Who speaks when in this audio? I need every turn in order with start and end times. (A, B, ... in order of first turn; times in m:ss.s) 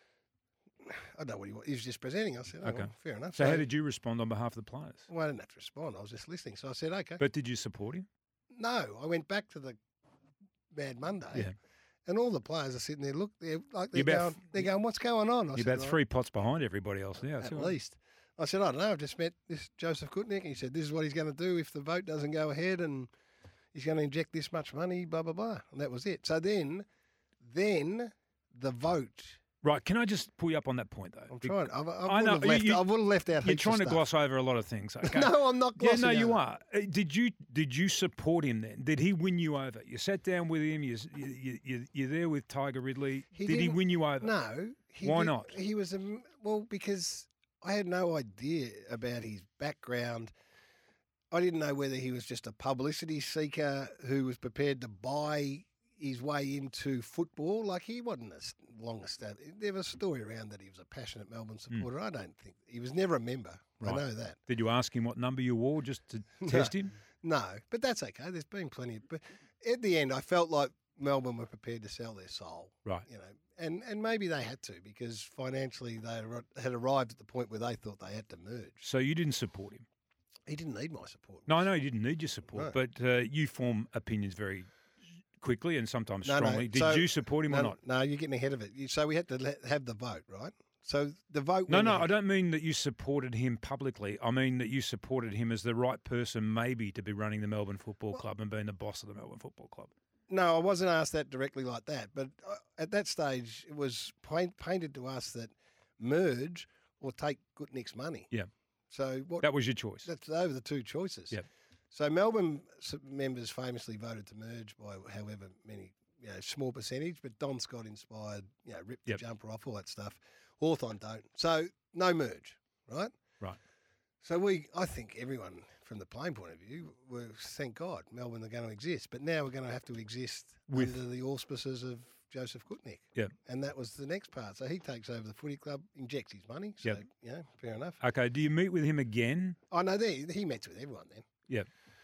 0:00.8-0:03.6 A
0:02.6-0:05.0 B
0:05.1-0:07.2 A
0:07.2-0:08.1 B
0:08.5-0:09.8 A
0:10.7-0:11.5 A
0:12.0-0:16.0 A
0:13.9-0:14.6 B
0:15.6-0:17.7 B
0:17.4-0:23.1 A
0:23.7-0:26.8 A
0:27.4-0:29.4 A
0:29.6-0:31.5 B
0:31.3-0:34.0 A
0:32.1-0:32.8 B
0:33.4-0:44.3 B
0:35.0-0:36.4 A
0:43.3-0:50.3 A
0:45.0-0:45.5 B
0:51.3-1:04.4 A
1:03.8-1:06.9 B
1:06.4-1:18.8 A
1:18.8-1:19.8 B
1:20.5-1:21.6 A
1:21.5-1:24.7 B
1:25.4-1:27.7 B
1:26.2-1:32.1 A
1:31.7-1:39.9 B
1:40.3-1:48.3 A
1:48.9-1:49.5 A
1:49.4-1:50.1 B
1:50.0-1:51.4 A
1:51.9-2:03.1 A
2:04.2-2:18.0 A
2:18.0-2:19.6 B
2:19.7-2:21.2 A